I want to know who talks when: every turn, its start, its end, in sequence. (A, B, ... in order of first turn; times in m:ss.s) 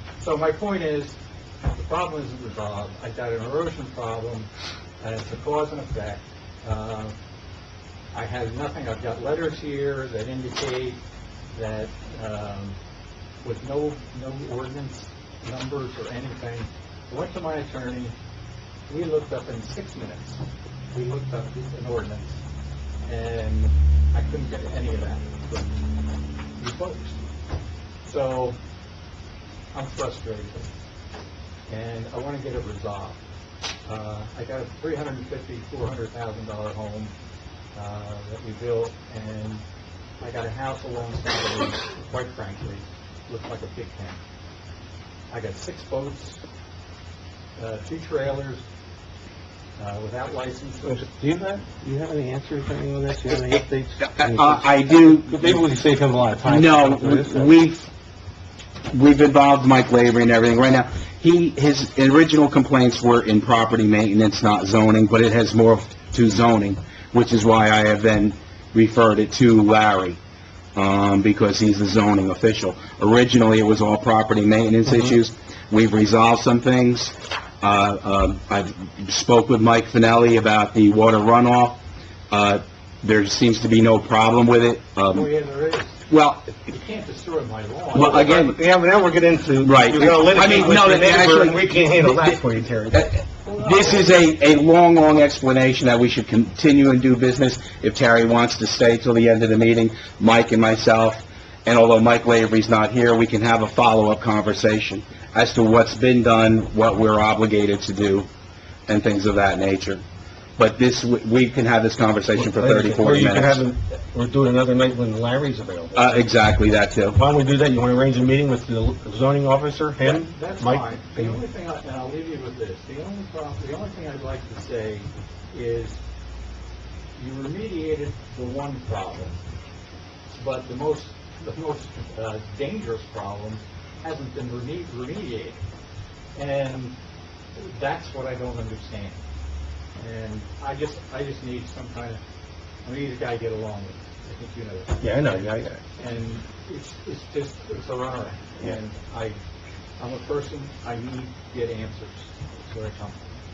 0:00.2-0:04.5 A
0:05.0-0:07.2 A
0:08.1-0:12.8 A
0:13.4-0:18.1 A
0:18.9-0:22.4 A
0:23.0-0:25.8 A
0:26.6-0:27.2 A
0:28.0-0:28.6 A
0:29.7-0:30.7 A
0:31.7-0:33.2 A
0:33.9-0:37.1 A
0:37.8-0:39.6 A
0:40.2-0:44.2 A
0:45.3-0:46.4 A
0:47.6-0:48.6 A
0:49.8-0:51.1 A
0:50.8-0:57.5 B
0:54.0-0:55.4 C
0:56.4-0:57.9 C
0:58.9-1:10.2 C
1:10.8-1:25.3 C
1:25.1-1:26.0 A
1:26.1-1:26.6 C
1:26.7-1:28.3 A
1:28.0-1:28.6 C
1:28.0-1:33.0 B
1:29.6-1:48.3 C
1:33.6-1:34.0 A
1:48.9-1:50.0 C
1:50.6-1:53.6 C
1:52.4-1:56.3 B
1:56.0-1:57.2 C
1:57.2-2:01.4 B
2:00.0-2:06.0 A
2:07.2-2:09.4 A
2:10.3-2:15.6 A
2:16.4-2:17.0 A
2:17.6-2:19.2 A
2:20.0-2:22.2 A
2:22.8-2:29.4 A
2:25.0-2:25.8 B
2:30.0-2:33.4 A